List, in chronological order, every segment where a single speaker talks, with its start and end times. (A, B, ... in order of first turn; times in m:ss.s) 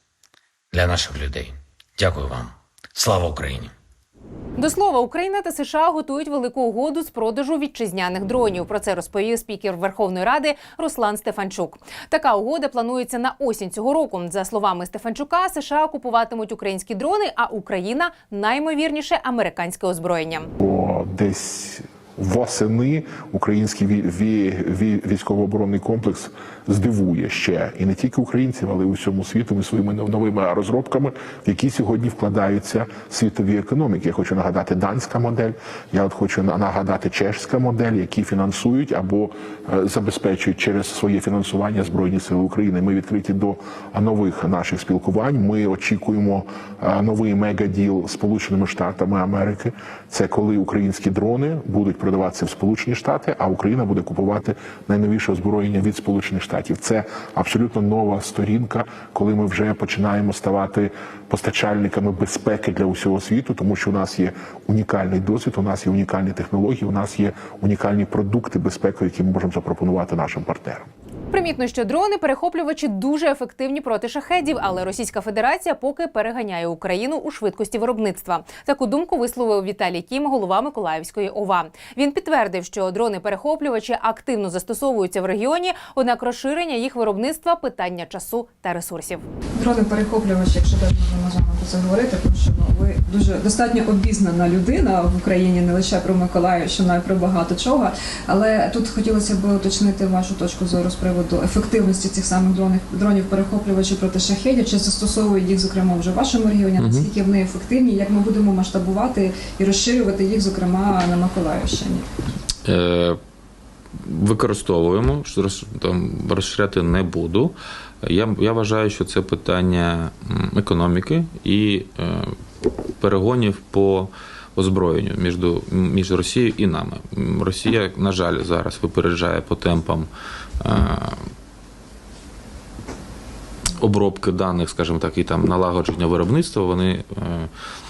0:00.7-0:03.7 A
0:04.6-0:20.5 B
0:20.6-1:10.9 C
1:11.3-1:29.2 B
1:29.6-1:52.0 D
1:46.8-1:47.1 E
1:52.6-1:53.2 E
1:54.0-2:10.1 E
2:10.6-2:11.2 E
2:13.8-2:17.5 E